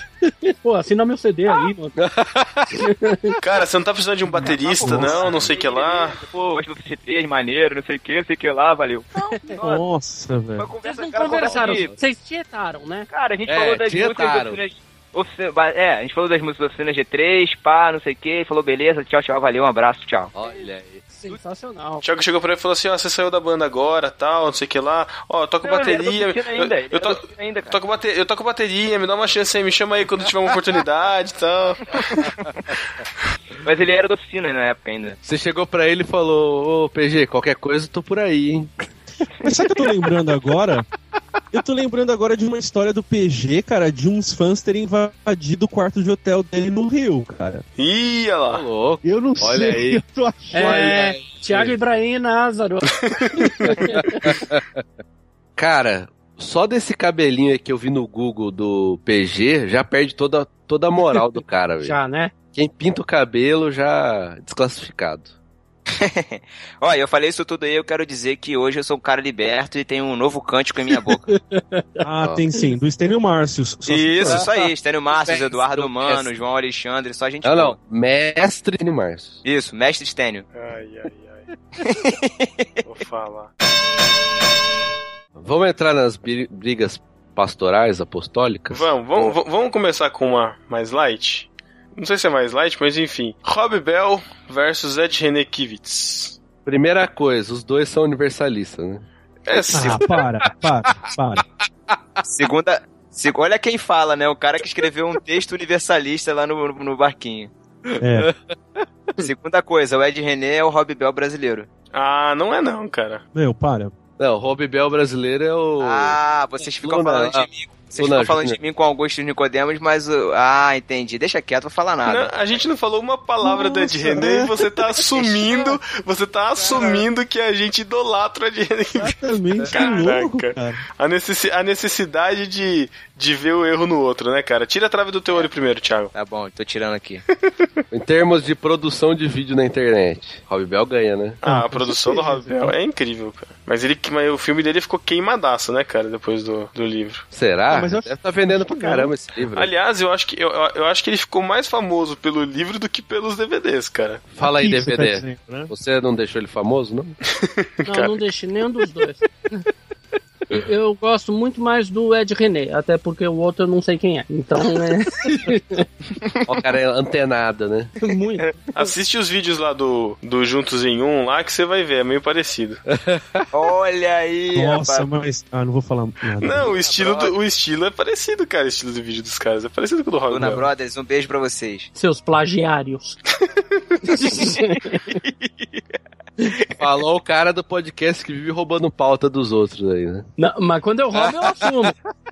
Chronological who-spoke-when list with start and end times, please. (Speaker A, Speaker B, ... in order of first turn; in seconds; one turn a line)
Speaker A: 0.2-1.9
Speaker B: 1.9-2.8
Speaker A: 2.7-3.4
Speaker C: 3.4-6.2
Speaker D: 4.3-5.4
Speaker E: 4.4-9.8
Speaker A: 9.1-9.6
Speaker D: 9.6-10.7
Speaker E: 10.6-11.9
Speaker A: 10.8-13.1
Speaker B: 11.4-12.0
Speaker E: 13.1-20.3
Speaker B: 13.5-14.6
Speaker B: 20.3-21.4
Speaker A: 20.4-22.0
Speaker C: 22.0-32.4
Speaker E: 25.6-27.8
Speaker B: 32.2-32.7
Speaker E: 33.6-35.2
Speaker B: 35.2-38.8
Speaker D: 39.4-40.8
Speaker D: 41.5-47.6
Speaker C: 47.8-48.6
Speaker B: 48.5-50.0
Speaker D: 49.0-50.9
Speaker A: 50.5-54.4
Speaker B: 50.5-51.8
Speaker C: 53.0-53.5
Speaker B: 53.6-54.8
Speaker B: 55.6-65.3
Speaker A: 61.8-62.4
Speaker E: 65.9-71.2
Speaker A: 71.2-72.7
Speaker D: 72.0-74.5
Speaker E: 73.8-77.8
Speaker B: 75.1-76.3
Speaker B: 77.4-79.4
Speaker E: 79.4-80.5
Speaker C: 80.5-81.5
Speaker E: 81.8-82.6
Speaker C: 82.8-83.5
Speaker B: 85.3-89.3
Speaker C: 88.7-96.4
Speaker B: 96.6-99.0
Speaker C: 99.5-100.2
Speaker E: 99.6-100.0
Speaker D: 99.7-101.4
Speaker B: 100.0-101.1
Speaker E: 102.2-107.5
Speaker D: 108.0-108.3
Speaker B: 108.2-108.8
Speaker E: 109.2-111.7
Speaker C: 111.9-113.2
Speaker D: 113.3-113.9
Speaker B: 114.2-118.6
Speaker E: 115.8-122.3
Speaker C: 122.0-129.1
Speaker D: 123.4-124.5
Speaker E: 125.1-125.8
Speaker E: 126.6-126.9
Speaker D: 128.9-130.8
Speaker C: 129.7-136.1
Speaker E: 136.1-137.2
Speaker B: 137.9-141.4
Speaker D: 141.4-142.7
Speaker C: 141.4-147.3
Speaker B: 147.3-149.7
Speaker D: 147.7-149.1
Speaker C: 149.5-154.3
Speaker B: 154.3-157.2
Speaker D: 154.4-155.7
Speaker C: 157.3-158.2
Speaker A: 157.9-159.6
Speaker A: 160.5-165.8
Speaker B: 166.5-167.9
Speaker A: 168.0-168.9
Speaker C: 168.7-172.8
Speaker B: 172.9-173.5
Speaker E: 173.5-175.1
Speaker D: 174.5-176.7
Speaker C: 176.4-180.7
Speaker E: 176.7-177.3
Speaker E: 180.3-181.9
Speaker A: 181.9-183.2
Speaker C: 183.4-184.0
Speaker A: 184.1-185.2
Speaker E: 185.1-186.0
Speaker B: 186.7-190.3
Speaker A: 190.4-191.9
Speaker B: 191.2-191.8